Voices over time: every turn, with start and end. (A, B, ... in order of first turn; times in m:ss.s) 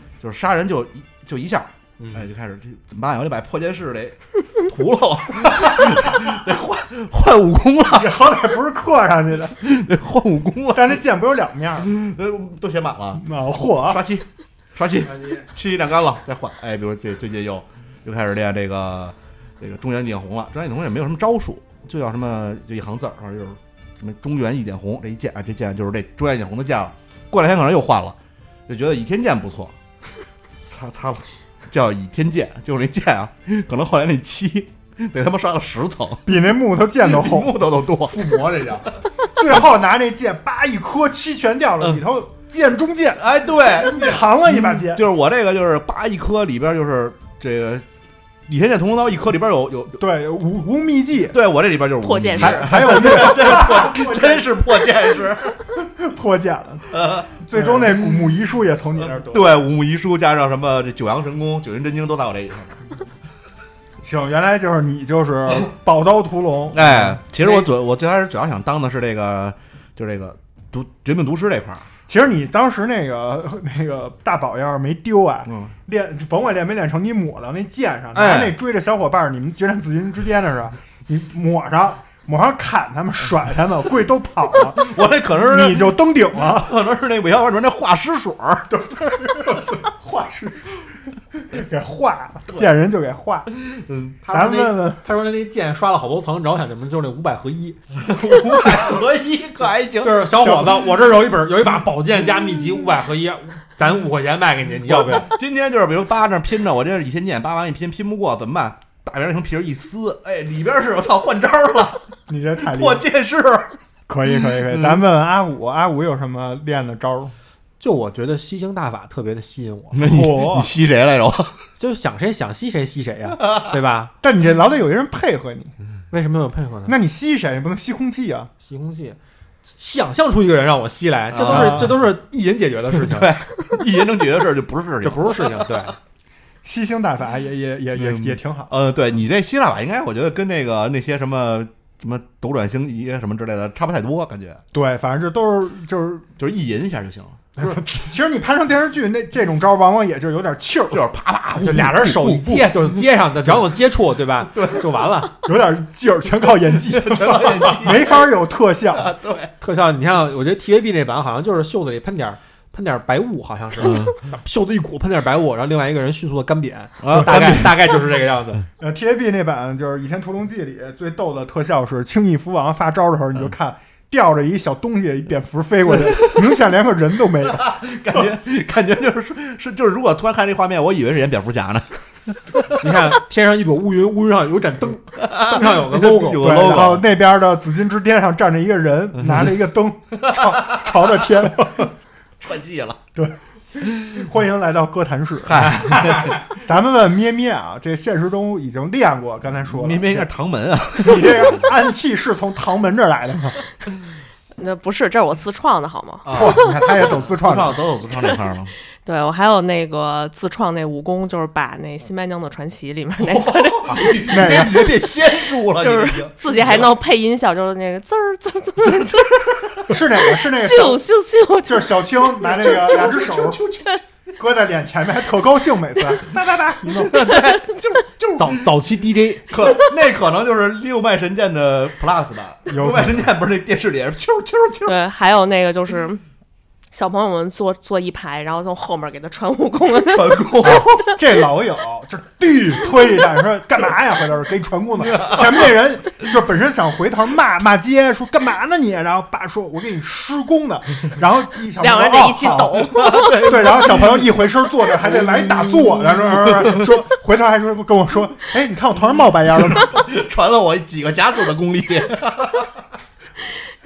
0:00.2-0:08.4 A
0:02.0-0:02.3 B
0:07.9-0:09.6 C
0:09.6-0:11.0 A
0:10.7-0:11.9 C
0:11.8-0:29.7 A
0:13.2-0:14.0 C
0:30.6-0:36.4 A
0:36.2-0:37.7 C
0:37.0-0:38.3 A
0:38.1-0:38.9 B
0:39.4-0:45.0 C
0:43.2-0:47.8 A
0:48.5-0:50.0 A
0:50.0-0:51.4 C
0:51.3-0:55.6 A
0:52.0-0:53.2 D
0:52.4-0:54.6 C
0:55.7-0:56.9 C
0:56.9-0:58.4 A
0:57.4-0:59.6 C
0:59.0-1:02.8 A
1:04.0-1:07.2 C
1:06.7-1:11.8 A
1:12.1-1:26.7 C
1:15.5-1:15.7 A
1:18.1-1:18.6 A
1:24.6-1:29.5 A
1:29.1-1:30.8 C
1:31.3-1:33.5 C
1:33.6-1:34.2 A
1:34.2-1:37.8 B
1:34.3-1:35.0 C
1:38.0-1:40.4 A
1:40.0-1:45.3 B
1:40.3-1:40.8 C
1:44.8-1:52.0 A
1:52.3-1:53.0 C
1:52.6-1:53.7 A
1:54.1-1:57.3 C
1:54.7-1:55.0 A
1:57.8-2:00.0 B
1:59.9-2:01.6 A
2:00.0-2:00.7 C
2:01.8-2:04.1 B
2:04.2-2:05.7 C
2:06.1-2:07.0 B
2:06.9-2:08.5 C
2:08.6-2:09.2 B
2:09.8-2:13.4 B
2:11.3-2:12.0 A
2:11.5-2:12.0 C
2:12.9-2:15.8 A
2:15.0-2:16.0 B
2:16.6-2:18.7 C
2:17.9-2:24.6 A
2:24.7-2:26.2 C
2:26.4-2:27.8 A
2:27.6-2:31.0 C
2:30.9-2:33.0 A
2:31.6-2:35.4 B
2:34.4-2:34.9 A
2:35.4-2:39.1 C
2:36.7-2:38.3 A
2:38.8-2:39.5 A
2:39.6-2:48.6 B
2:43.8-2:44.1 A
2:47.0-2:48.0 A
2:48.8-2:58.2 C
2:55.8-2:56.6 A
2:57.4-3:02.8 A
3:02.7-3:06.7 B
3:05.2-3:07.1 A
3:06.4-3:11.9 C
3:09.2-3:09.5 A
3:10.3-3:11.4 A
3:12.4-3:13.0 A
3:13.2-3:20.3 C
3:15.4-3:16.3 A
3:19.6-3:21.7 A
3:21.0-3:23.6 C
3:24.6-3:26.5 D
3:26.2-3:28.7 A
3:26.3-3:27.8 C
3:29.0-3:34.3 D
3:33.2-3:36.9 A
3:34.0-3:35.0 C
3:35.6-3:43.0 D
3:39.8-3:41.0 C
3:41.6-3:43.6 C
3:42.4-3:44.0 A
3:44.4-3:47.4 C
3:46.9-3:48.7 A
3:48.4-3:49.5 B
3:49.5-3:55.0 A
3:52.7-3:53.3 C
3:54.8-3:56.2 D
3:56.9-4:01.0 D
3:59.8-4:01.0 A
4:01.2-4:20.0 C
4:05.0-4:05.7 A
4:11.8-4:13.5 D
4:12.9-4:17.0 A
4:19.5-4:22.7 A